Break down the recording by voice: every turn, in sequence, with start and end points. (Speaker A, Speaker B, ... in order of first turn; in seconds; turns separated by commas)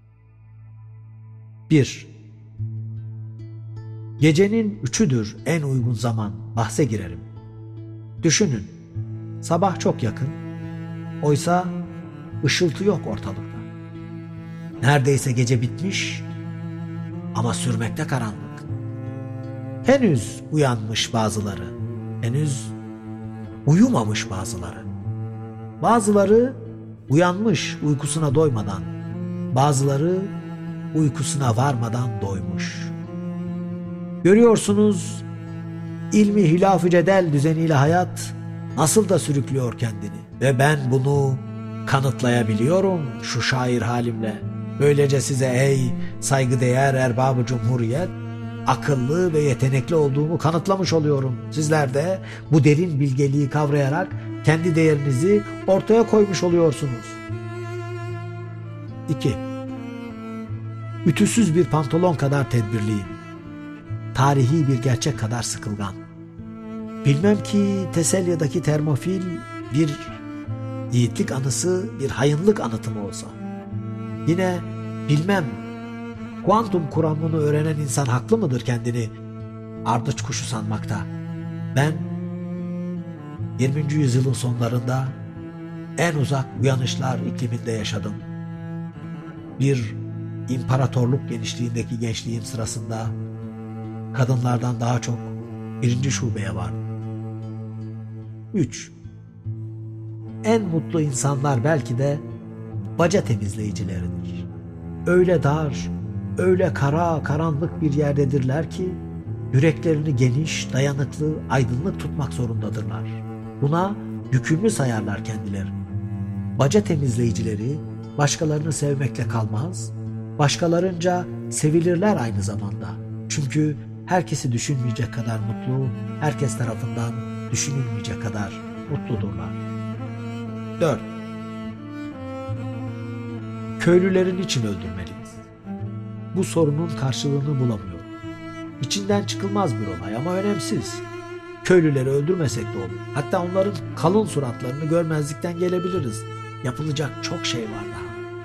Speaker A: 1.7-2.1, Speaker A: 4.2-7.3, Speaker A: 8.2-8.7, Speaker A: 9.4-10.4, Speaker A: 11.2-11.8, Speaker A: 12.4-13.7, Speaker A: 14.8-16.2, Speaker A: 17.3-18.6, Speaker A: 19.8-22.7, Speaker A: 23.6-24.9, Speaker A: 25.8-28.9, Speaker A: 29.5-30.3, Speaker A: 30.9-32.9, Speaker A: 34.2-35.2, Speaker A: 36.1-48.1, Speaker A: 48.6-57.2, Speaker A: 59.1-59.4, Speaker A: 61.0-63.2, Speaker A: 64.1-66.0, Speaker A: 67.0-70.2, Speaker A: 70.9-73.4, Speaker A: 74.2-75.6, Speaker A: 76.4-79.1, Speaker A: 79.8-81.1, Speaker A: 81.7-82.1, Speaker A: 83.6-85.2, Speaker A: 86.0-88.2, Speaker A: 89.6-93.1, Speaker A: 94.1-96.8, Speaker A: 98.5-98.9, Speaker A: 100.4-102.2, Speaker A: 103.0-104.4, Speaker A: 105.0-109.0, Speaker A: 109.5-115.7, Speaker A: 116.6-129.6, Speaker A: 130.8-131.1, Speaker A: 133.8-135.5, Speaker A: 136.3-138.1, Speaker A: 138.8-141.0, Speaker A: 141.6-148.2